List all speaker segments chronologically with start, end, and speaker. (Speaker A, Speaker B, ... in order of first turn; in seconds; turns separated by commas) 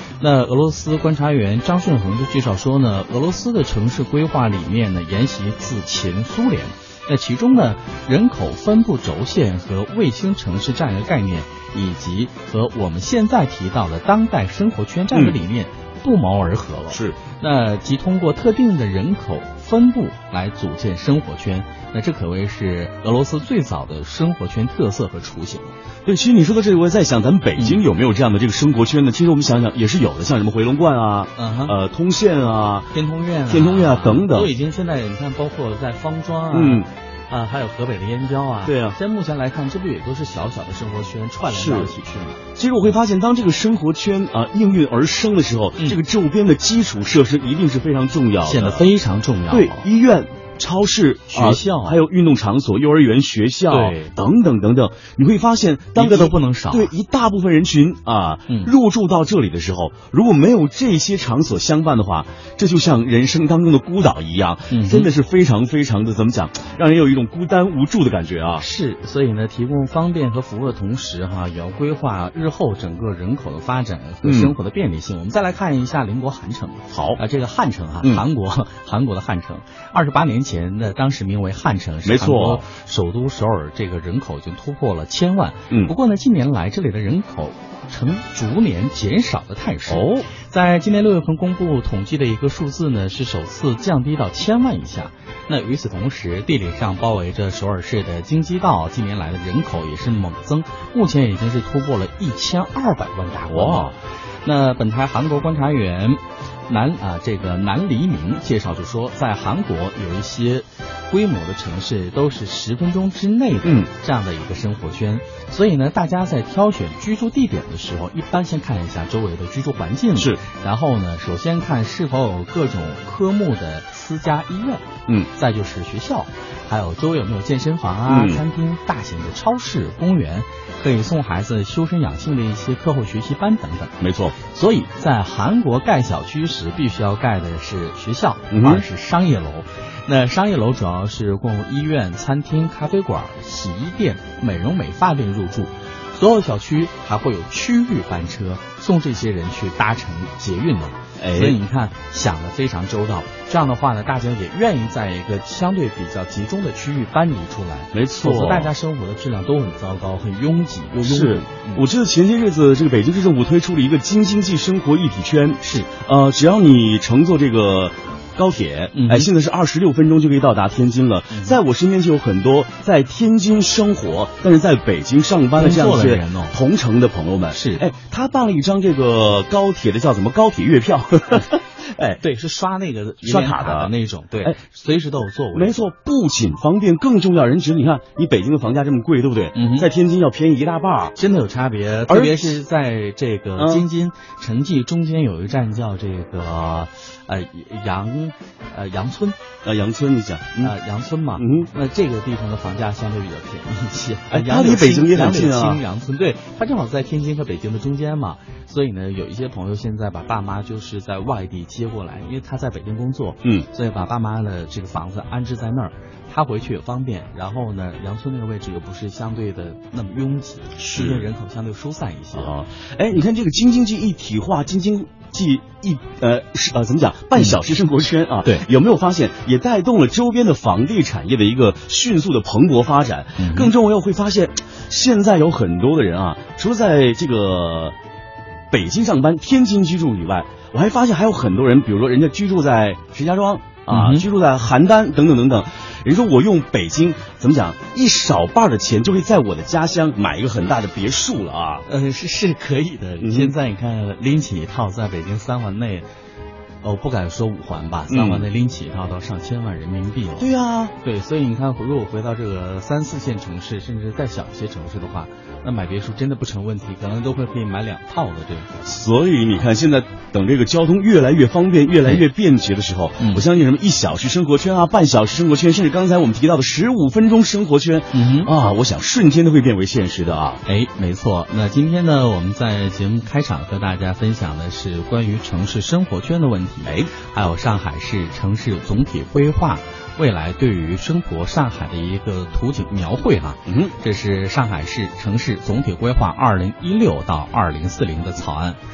Speaker A: 0.2-25.7, Speaker B: 16.9-17.2, Speaker B: 26.1-32.9, Speaker A: 31.4-31.7, Speaker A: 32.9-42.4, Speaker B: 33.5-34.5, Speaker B: 36.5-36.9, Speaker B: 38.6-39.0, Speaker B: 41.5-41.9, Speaker B: 42.5-48.9, Speaker A: 48.4-49.9, Speaker B: 49.5-68.7, Speaker A: 51.3-52.0, Speaker A: 53.7-54.1, Speaker A: 56.0-56.9, Speaker A: 64.7-65.1, Speaker A: 68.6-103.9, Speaker B: 74.2-74.5, Speaker B: 76.9-77.2, Speaker B: 82.0-82.6, Speaker B: 85.7-85.9, Speaker B: 89.9-90.2, Speaker B: 103.5-103.9, Speaker A: 104.4-161.9, Speaker B: 120.2-120.4, Speaker B: 128.1-128.4, Speaker B: 134.0-134.3, Speaker B: 138.5-138.8, Speaker B: 151.2-151.6, Speaker B: 157.9-158.7, Speaker B: 161.0-182.2, Speaker A: 168.9-169.3, Speaker A: 171.3-171.6, Speaker A: 175.6-176.5, Speaker A: 177.5-177.8, Speaker A: 182.2-185.8, Speaker B: 183.2-183.9, Speaker B: 185.5-191.2, Speaker A: 189.5-189.9, Speaker A: 191.2-199.3, Speaker B: 192.1-192.6, Speaker B: 193.6-193.8, Speaker B: 199.6-200.7, Speaker A: 200.6-222.5, Speaker B: 201.4-201.7, Speaker B: 204.3-205.8, Speaker B: 220.8-221.3, Speaker B: 222.3-237.9, Speaker A: 233.4-233.7, Speaker B: 238.7-251.8, Speaker A: 243.9-244.2, Speaker A: 251.9-256.1, Speaker B: 253.2-253.5, Speaker A: 256.8-268.7, Speaker B: 258.1-258.5, Speaker B: 260.4-260.9, Speaker B: 268.8-280.6, Speaker A: 273.2-273.4, Speaker A: 278.1-278.5, Speaker A: 280.6-298.8, Speaker B: 286.8-287.1, Speaker B: 293.7-293.9